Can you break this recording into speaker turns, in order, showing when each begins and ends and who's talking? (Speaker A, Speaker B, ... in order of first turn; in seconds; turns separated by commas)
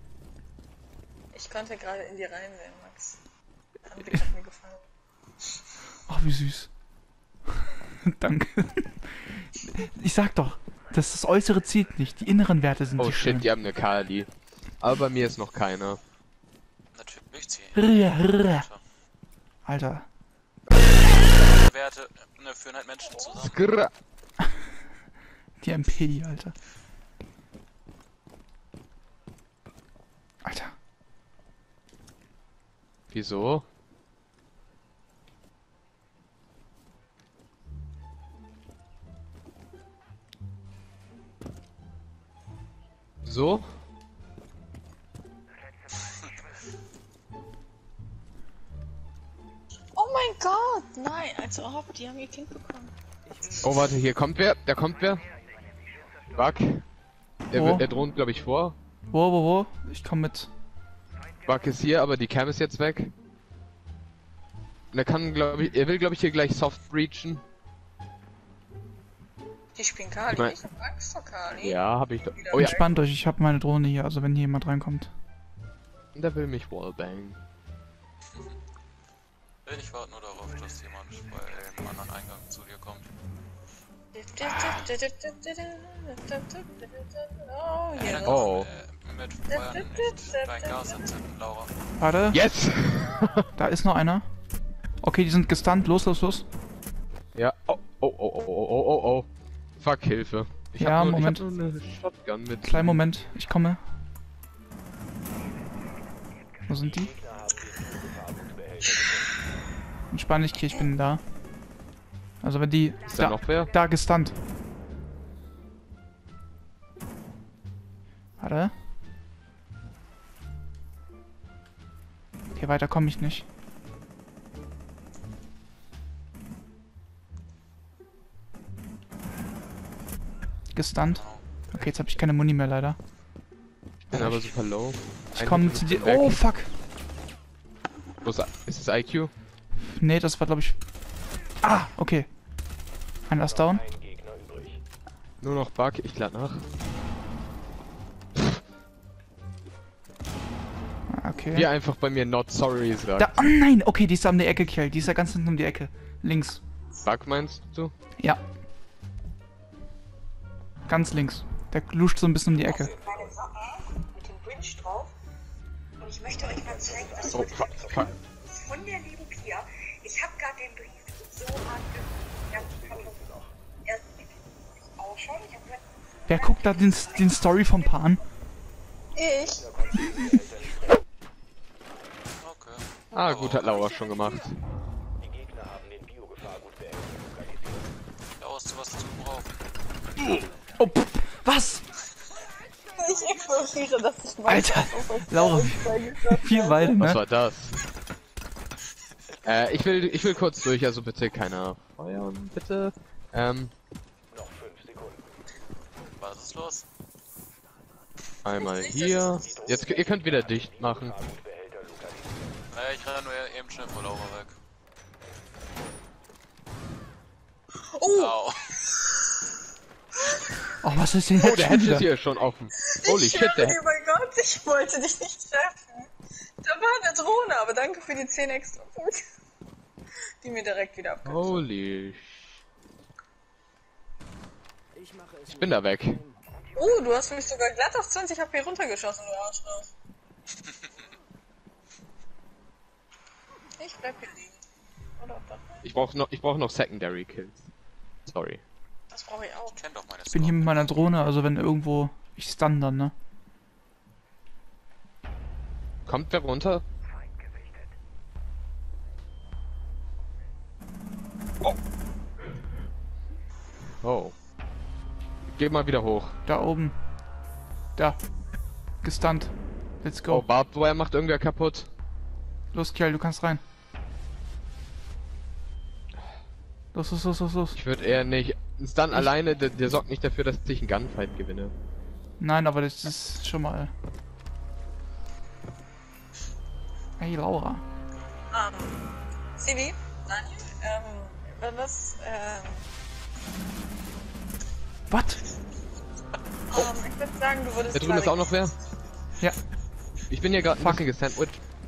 Speaker A: 1.3-3.2, Speaker A: 3.9-4.8, Speaker B: 6.1-6.7, Speaker B: 8.0-13.5, Speaker C: 13.0-16.0, Speaker D: 16.9-17.9, Speaker B: 17.7-18.7, Speaker D: 18.4-18.8, Speaker B: 19.6-20.1, Speaker D: 21.1-23.6, Speaker A: 23.1-23.4, Speaker C: 23.4-23.9, Speaker B: 25.6-26.5, Speaker B: 30.4-30.7, Speaker C: 33.1-33.6, Speaker C: 43.2-43.7, Speaker A: 50.0-52.9, Speaker C: 53.6-55.2, Speaker C: 56.3-56.8, Speaker C: 57.5-58.8, Speaker B: 57.5-57.9, Speaker B: 59.1-60.5, Speaker C: 61.4-63.1, Speaker C: 64.9-67.4, Speaker A: 69.7-72.9, Speaker C: 71.6-72.7, Speaker B: 72.6-75.1, Speaker C: 76.1-77.4, Speaker D: 79.6-83.1, Speaker A: 84.1-88.5, Speaker B: 84.4-84.8, Speaker D: 88.0-91.7, Speaker C: 88.2-88.7, Speaker A: 89.5-91.1, Speaker B: 92.0-92.4, Speaker C: 92.3-93.5, Speaker B: 93.5-94.3, Speaker B: 95.0-96.5, Speaker C: 97.3-99.3, Speaker C: 99.8-103.0, Speaker B: 100.8-101.4, Speaker B: 102.6-103.8, Speaker B: 106.7-107.2, Speaker A: 108.8-109.3, Speaker B: 110.1-111.2, Speaker B: 112.4-114.4, Speaker C: 113.1-113.7, Speaker B: 118.4-118.7, Speaker B: 122.5-123.5, Speaker B: 130.7-133.0, Speaker D: 131.1-131.4, Speaker C: 134.0-136.4, Speaker B: 134.1-134.6, Speaker B: 135.3-136.7, Speaker C: 138.2-139.3, Speaker B: 139.8-140.8, Speaker B: 141.6-142.4, Speaker B: 143.2-143.9, Speaker C: 145.4-146.7, Speaker B: 151.1-151.7, Speaker C: 151.5-153.3, Speaker B: 153.2-156.6, Speaker C: 157.0-157.9, Speaker B: 160.8-162.9, Speaker A: 162.7-165.1, Speaker A: 166.0-173.2, Speaker C: 167.3-168.1, Speaker A: 173.8-174.3, Speaker A: 174.8-175.8, Speaker B: 176.3-178.2, Speaker A: 179.1-180.0, Speaker D: 182.4-183.8, Speaker C: 183.1-184.6, Speaker D: 188.4-189.7, Speaker B: 190.8-191.8, Speaker A: 192.9-197.0, Speaker B: 194.4-197.2, Speaker C: 197.0-197.8, Speaker C: 199.4-203.7, Speaker D: 206.2-206.8, Speaker C: 208.4-211.2, Speaker A: 208.5-209.2, Speaker D: 212.7-214.6, Speaker A: 217.9-219.4, Speaker D: 218.1-218.5, Speaker B: 220.8-222.1, Speaker C: 221.4-223.8, Speaker A: 222.8-226.1, Speaker A: 226.6-229.2, Speaker A: 230.4-231.7, Speaker C: 231.2-232.6, Speaker C: 235.4-236.2, Speaker A: 236.7-239.9, Speaker A: 243.8-244.6, Speaker A: 245.2-245.9, Speaker C: 245.8-247.7, Speaker C: 248.3-248.6, Speaker A: 249.1-249.8, Speaker D: 249.7-251.2, Speaker B: 250.3-253.1, Speaker C: 256.1-256.8, Speaker C: 264.0-264.4, Speaker C: 265.5-266.4, Speaker B: 266.4-267.1, Speaker B: 267.9-268.3, Speaker B: 268.9-270.5, Speaker C: 270.3-271.9, Speaker B: 272.7-273.6, Speaker B: 276.9-277.8, Speaker C: 277.7-281.7, Speaker B: 282.4-283.9, Speaker B: 287.2-287.8, Speaker A: 288.5-292.9, Speaker B: 295.1-295.4, Speaker A: 296.7-298.6, Speaker C: 297.9-298.7, Speaker C: 300.3-301.6, Speaker B: 300.7-301.1